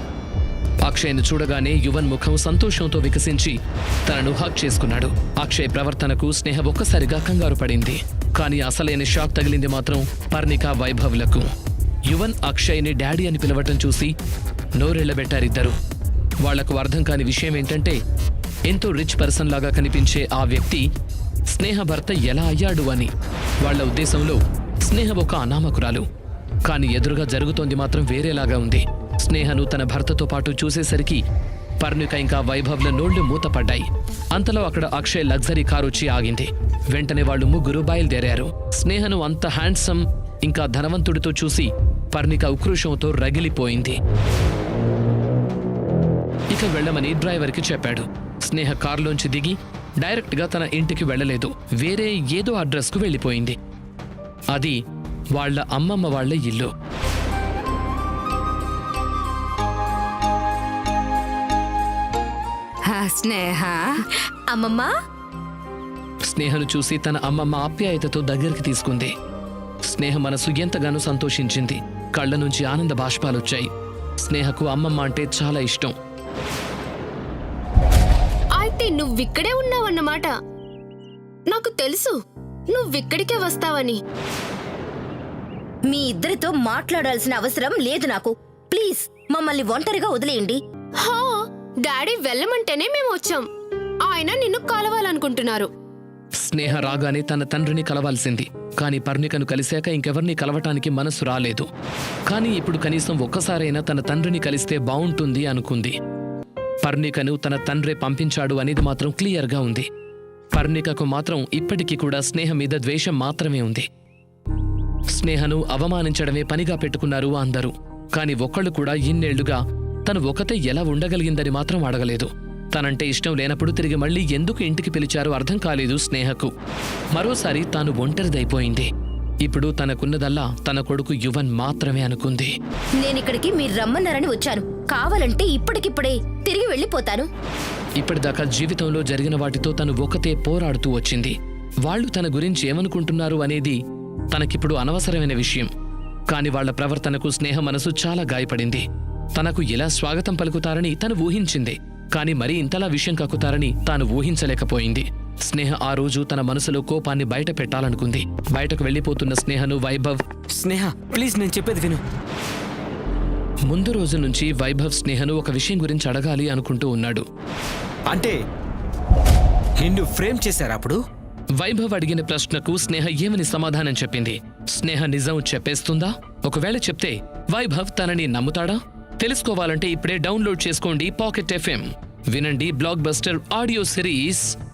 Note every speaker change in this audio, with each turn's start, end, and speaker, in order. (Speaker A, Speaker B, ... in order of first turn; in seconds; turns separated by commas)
Speaker A: 0.8-11.5, Speaker A: 12.1-14.1, Speaker A: 14.8-15.8, Speaker A: 16.4-18.0, Speaker A: 18.7-20.9, Speaker A: 21.5-26.1, Speaker A: 26.6-31.2, Speaker A: 31.8-44.0, Speaker A: 46.5-53.6, Speaker A: 54.5-54.8, Speaker A: 55.3-56.7, Speaker B: 62.9-63.9, Speaker C: 64.5-64.9, Speaker A: 66.2-69.1, Speaker A: 69.8-75.9, Speaker B: 78.5-80.3, Speaker B: 81.5-82.2, Speaker B: 82.7-84.0, Speaker C: 85.9-90.6, Speaker B: 91.0-93.4, Speaker B: 94.0-95.7, Speaker A: 96.4-101.7, Speaker A: 102.3-105.9, Speaker A: 106.8-109.9, Speaker A: 110.5-113.8, Speaker A: 115.1-126.5, Speaker A: 127.1-128.9, Speaker A: 129.4-132.5, Speaker C: 133.0-137.3, Speaker A: 138.0-143.8, Speaker A: 144.3-145.7, Speaker A: 146.3-160.2, Speaker D: 160.5-162.0, Speaker A: 163.7-167.2, Speaker D: 168.1-168.4, Speaker D: 169.8-171.0, Speaker A: 171.6-184.6